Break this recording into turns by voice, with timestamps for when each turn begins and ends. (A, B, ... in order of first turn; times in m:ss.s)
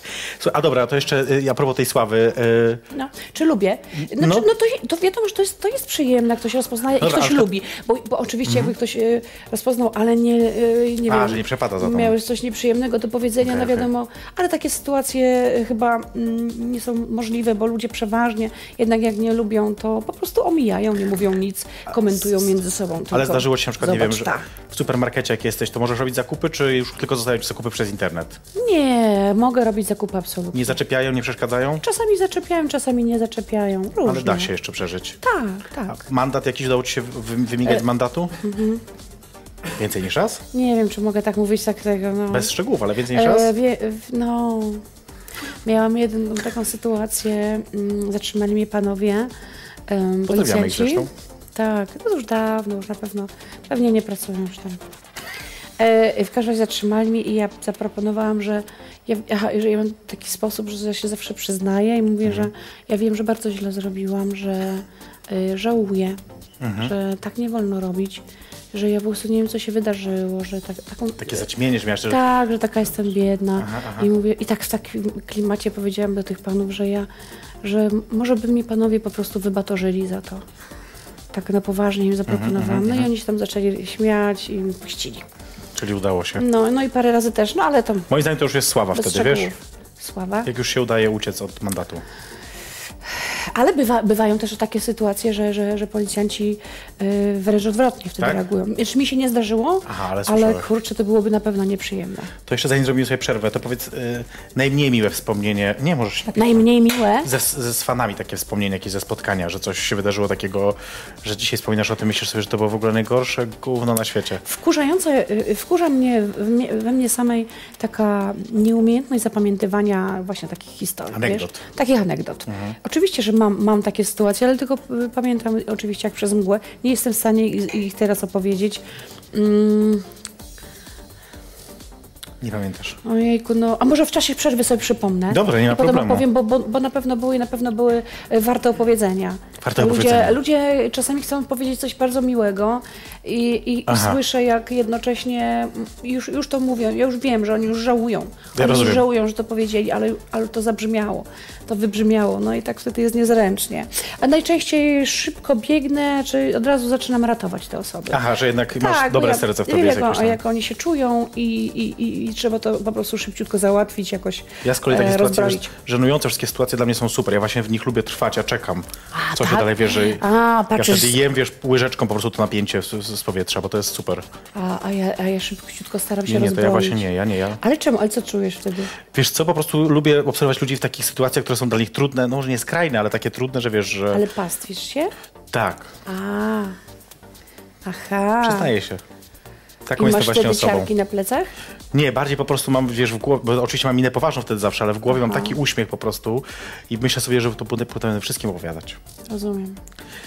0:00.4-0:02.8 A
0:02.9-0:24.5 B
0:04.0-0:04.5 A
0:07.0-0:07.5 A
0:08.4-0:08.7 A
0:11.1-0:12.1 A
0:13.4-0:13.9 A
0:23.1-0:28.4 A
0:28.5-0:30.8 B
0:30.5-0:31.8 A
0:31.8-0:34.5 B
0:34.0-0:35.2 A
0:35.2-0:36.0 B
0:35.9-0:38.4 A
0:38.4-0:38.8 B
0:39.8-0:40.4 A
0:40.5-0:42.5 B
0:42.3-0:43.5 A
0:43.1-0:44.8 B
0:45.6-0:49.3 B
0:49.9-0:54.8 B
0:50.3-0:51.1 A
0:55.8-1:06.2 B
1:02.2-1:02.5 A
1:06.6-1:06.9 A
1:06.8-1:11.4 B
1:11.2-1:12.2 A
1:12.1-1:17.1 B
1:13.6-1:14.1 A
1:17.6-1:20.4 B
1:21.3-1:25.2 B
1:22.3-1:23.1 A
1:25.7-1:26.4 A
1:26.4-1:28.1 B
1:28.1-1:29.5 A
1:28.9-1:30.5 B
1:30.4-1:32.0 A
1:33.1-1:42.3 B
1:39.8-1:40.7 A
1:42.4-1:46.6 A
1:46.3-1:47.3 B
1:47.2-1:54.4 A
1:54.4-2:08.8 B
2:01.1-2:01.6 A
2:02.5-2:02.8 A
2:09.3-2:10.0 B
2:12.4-2:13.0 A
2:13.0-2:38.2 B
2:15.3-2:16.2 A
2:19.6-2:20.4 A
2:23.9-2:24.2 A
2:28.5-2:29.0 A
2:38.1-2:40.4 A
2:38.8-2:45.7 B
2:44.6-2:50.2 A
2:49.1-2:51.2 B
2:50.8-2:54.2 A
2:54.5-2:57.1 B
2:56.2-2:57.6 A
2:57.6-2:58.9 B
2:59.1-3:04.2 A
3:04.1-3:05.1 B
3:05.5-3:05.9 A
3:06.0-3:06.8 B
3:07.8-3:08.7 B
3:08.4-3:09.0 A
3:09.8-3:10.9 A
3:10.0-3:11.5 B
3:11.9-3:19.0 A
3:15.1-3:15.6 B
3:19.3-3:19.8 B